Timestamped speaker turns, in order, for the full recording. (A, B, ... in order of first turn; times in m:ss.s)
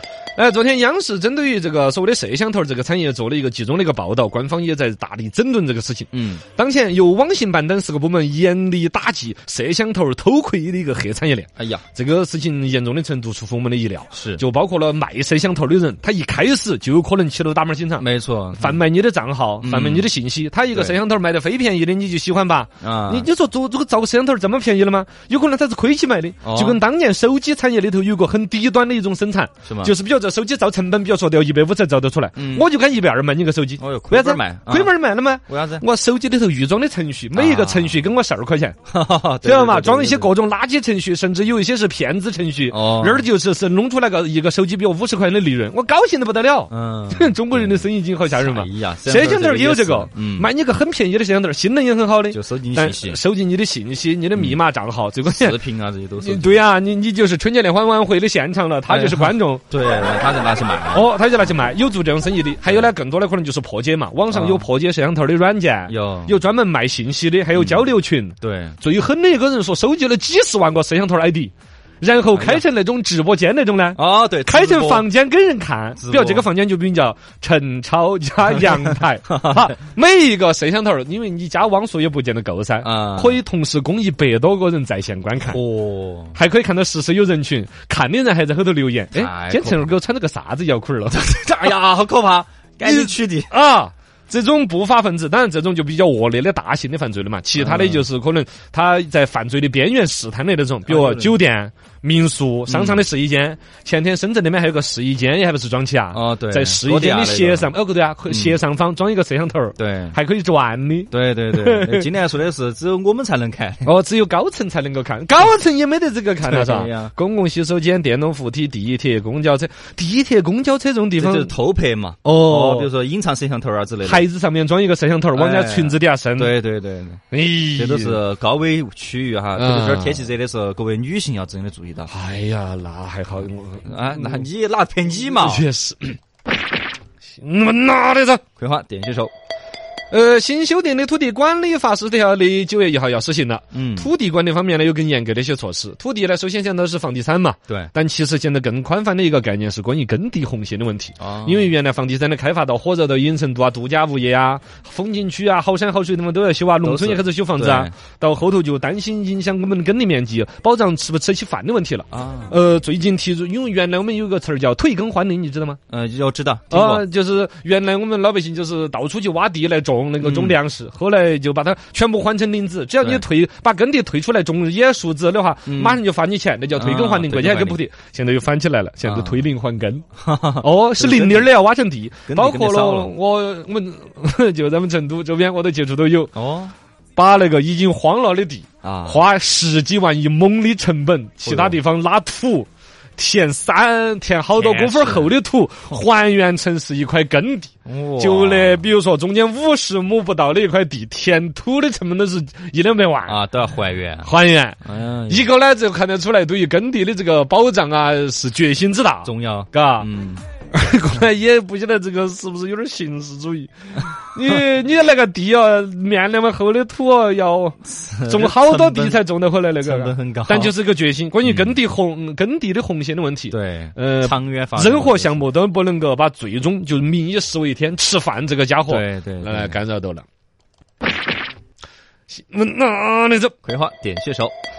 0:00.4-0:18.0 A
0:06.1-0:06.4 B
0:11.6-0:11.8 B
0:14.1-0:14.4 B
0:18.0-0:18.8 B
0:18.6-0:38.8 A
0:19.6-0:20.1 B
0:20.7-0:21.0 B
0:22.8-0:23.3 B
0:26.4-0:26.8 B
0:29.6-0:29.9 B
0:32.4-0:32.7 B
0:33.8-0:34.9 B
0:35.5-0:35.8 B
0:37.3-0:38.0 B
0:38.9-0:40.3 B
0:39.4-0:55.6 A
0:42.7-0:43.3 B
0:46.7-0:50.5 B
0:52.3-0:53.2 B
0:55.2-0:56.6 B
0:56.2-0:59.6 A
0:58.9-1:01.1 B
1:00.9-1:25.6 A
1:04.3-1:04.7 B
1:05.9-1:06.4 B
1:07.5-1:08.8 B
1:12.3-1:12.6 B
1:14.0-1:15.1 B
1:16.0-1:16.5 B
1:18.6-1:19.7 B
1:22.8-1:23.4 B
1:25.4-1:26.4 B
1:26.3-1:31.7 A
1:29.1-1:29.9 B
1:31.1-1:33.5 B
1:32.8-1:52.1 A
1:37.6-1:38.0 B
1:40.9-1:41.4 B
1:42.7-1:43.0 B
1:46.1-1:47.7 B
1:48.3-1:48.6 B
1:49.8-1:50.2 B
1:51.1-1:53.9 B
1:53.8-2:01.5 A
1:56.4-1:57.1 B
2:01.2-2:04.2 B
2:02.2-2:02.9 A
2:04.0-2:06.6 A
2:05.3-2:07.2 B
2:07.3-2:08.2 A
2:07.7-2:12.1 B
2:09.6-2:10.3 A
2:12.1-2:14.4 A
2:13.8-2:15.6 B
2:15.4-2:16.2 A
2:17.4-2:18.4 A
2:18.6-2:19.3 B
2:20.1-2:45.8 A
2:23.7-2:24.1 B
2:31.2-2:31.7 B
2:36.8-2:37.9 B
2:42.1-2:42.5 B
2:45.9-2:47.0 B
2:46.7-3:00.0 A
2:50.2-2:50.6 B
2:55.7-2:56.0 B
2:56.8-2:57.8 B
2:59.0-2:59.4 B
3:00.2-3:01.5 B
3:00.6-3:06.3 A
3:02.3-3:03.1 B
3:06.3-3:06.7 B
3:07.2-3:23.4 A
3:08.8-3:09.2 B
3:11.4-3:11.8 B
3:14.5-3:15.3 B
3:17.8-3:18.8 B
3:23.2-3:24.3 B
3:24.2-3:30.1 A
3:24.8-3:25.5 B
3:29.2-3:30.4 B
3:30.7-3:50.2 A
3:37.8-3:39.2 B
3:39.8-3:40.7 B
3:41.4-3:41.8 B
3:43.5-3:45.5 B
3:48.9-3:49.8 B
3:52.3-3:53.5 A
3:53.6-3:54.5 B